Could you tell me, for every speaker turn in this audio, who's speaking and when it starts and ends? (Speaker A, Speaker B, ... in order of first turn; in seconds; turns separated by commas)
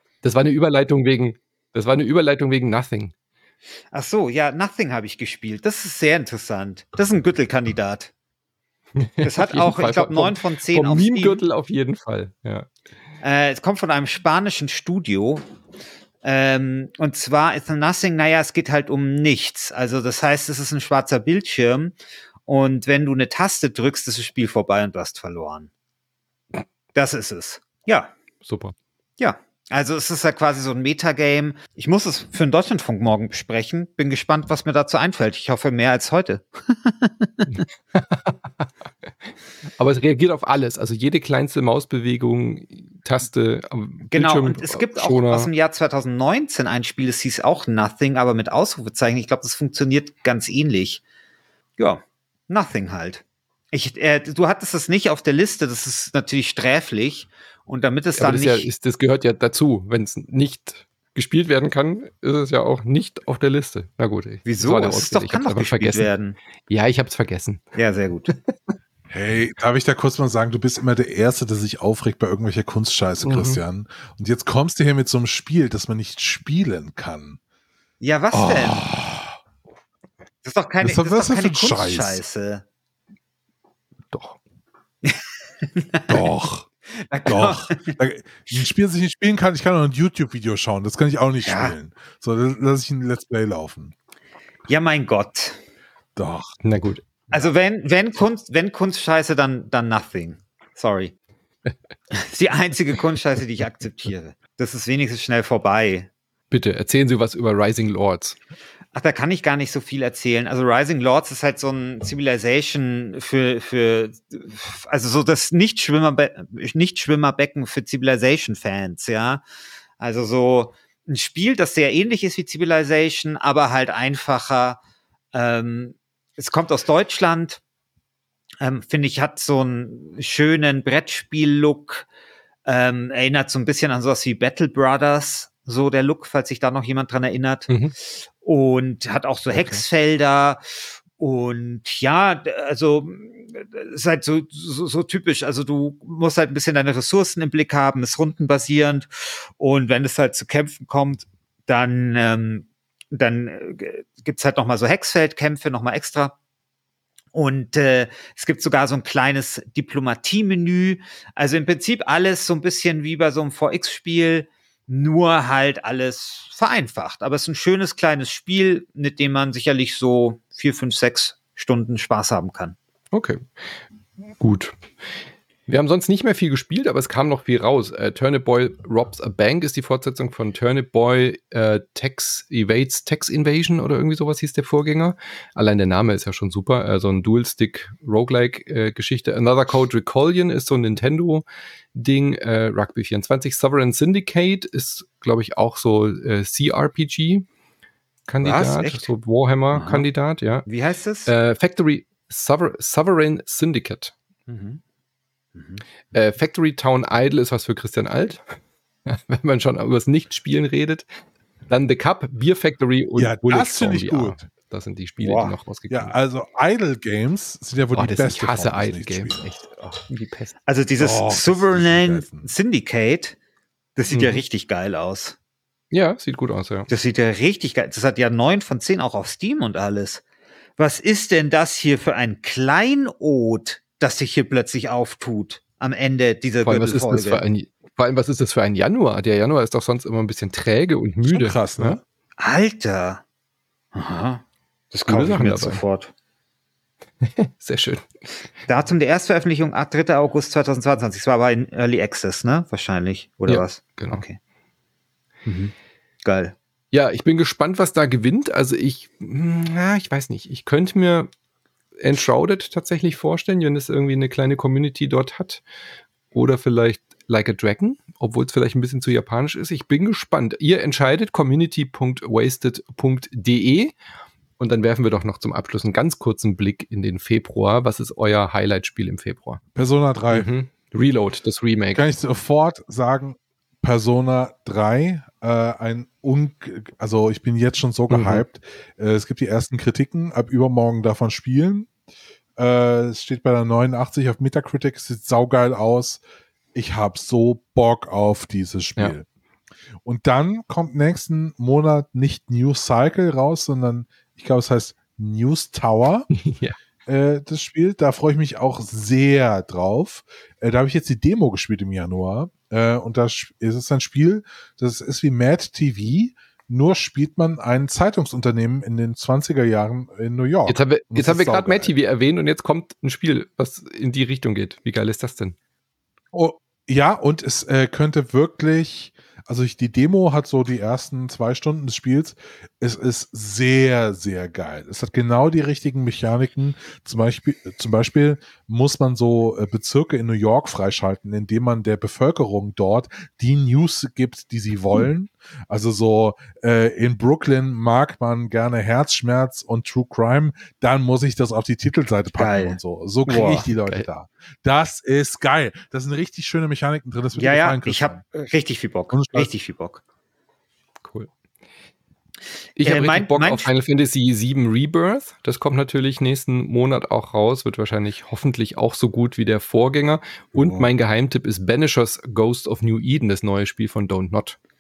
Speaker A: 0.2-3.1, Speaker B: 3.9-8.1, Speaker A: 9.0-12.7, Speaker B: 9.2-11.4, Speaker B: 13.2-15.4, Speaker B: 16.2-21.9, Speaker B: 22.5-25.7, Speaker B: 26.9-28.1, Speaker A: 28.4-28.8, Speaker B: 29.2-37.5, Speaker A: 37.5-39.1, Speaker A: 39.8-45.5, Speaker B: 44.1-51.0, Speaker B: 51.8-58.7, Speaker A: 58.2-66.1, Speaker B: 64.5-66.4, Speaker A: 66.7-67.6, Speaker B: 67.8-68.3, Speaker A: 68.3-68.7, Speaker C: 69.1-77.4, Speaker A: 73.2-73.6, Speaker B: 78.0-78.9, Speaker C: 78.3-79.2, Speaker B: 80.4-82.6, Speaker C: 80.8-82.2, Speaker A: 84.1-84.4, Speaker B: 85.8-86.2, Speaker C: 86.1-86.7, Speaker B: 87.0-88.0, Speaker C: 87.3-94.0, Speaker B: 91.4-91.8, Speaker B: 94.7-95.6, Speaker C: 96.2-96.6, Speaker A: 96.6-97.1, Speaker B: 97.3-101.1, Speaker B: 102.1-106.1, Speaker A: 106.5-108.4, Speaker B: 108.9-119.4, Speaker B: 120.0-124.8, Speaker B: 125.3-127.6, Speaker B: 128.6-132.1, Speaker B: 132.7-156.3, Speaker A: 139.5-139.8, Speaker B: 157.3-172.8, Speaker A: 173.1-173.5, Speaker A: 174.4-174.8, Speaker A: 175.7-197.5, Speaker A: 198.3-200.7, Speaker B: 198.4-199.1, Speaker B: 199.7-200.1, Speaker B: 200.7-201.3, Speaker A: 201.3-204.1, Speaker B: 204.5-204.8, Speaker B: 205.6-205.8, Speaker A: 206.1-211.1, Speaker A: 211.7-216.2, Speaker C: 213.2-214.5, Speaker C: 215.9-219.4, Speaker A: 217.9-220.6, Speaker B: 220.7-223.4, Speaker C: 221.0-222.5, Speaker B: 224.0-225.4, Speaker A: 224.1-224.4, Speaker A: 225.9-226.9, Speaker B: 226.9-230.2, Speaker B: 230.8-237.4, Speaker A: 236.6-242.0, Speaker C: 241.2-242.0, Speaker B: 242.4-243.2, Speaker B: 243.9-246.1, Speaker A: 245.1-245.8, Speaker A: 247.2-248.1, Speaker B: 248.7-254.4, Speaker A: 253.5-254.2, Speaker B: 255.5-255.7, Speaker B: 256.2-256.5, Speaker A: 256.9-261.3, Speaker A: 262.0-265.6, Speaker A: 266.3-273.9, Speaker A: 274.6-279.6, Speaker C: 279.8-280.5, Speaker A: 280.3-282.1, Speaker C: 281.9-291.9, Speaker A: 288.1-288.4, Speaker C: 292.6-296.2, Speaker C: 296.8-299.2, Speaker C: 300.0-306.3, Speaker A: 306.3-306.8, Speaker C: 307.1-321.9, Speaker A: 320.7-325.6, Speaker C: 326.3-358.2, Speaker B: 352.4-353.7, Speaker A: 353.3-354.1, Speaker B: 357.4-360.0, Speaker C: 359.1-359.5, Speaker A: 361.0-361.3, Speaker A: 362.8-374.6, Speaker B: 362.8-363.7, Speaker B: 370.6-370.9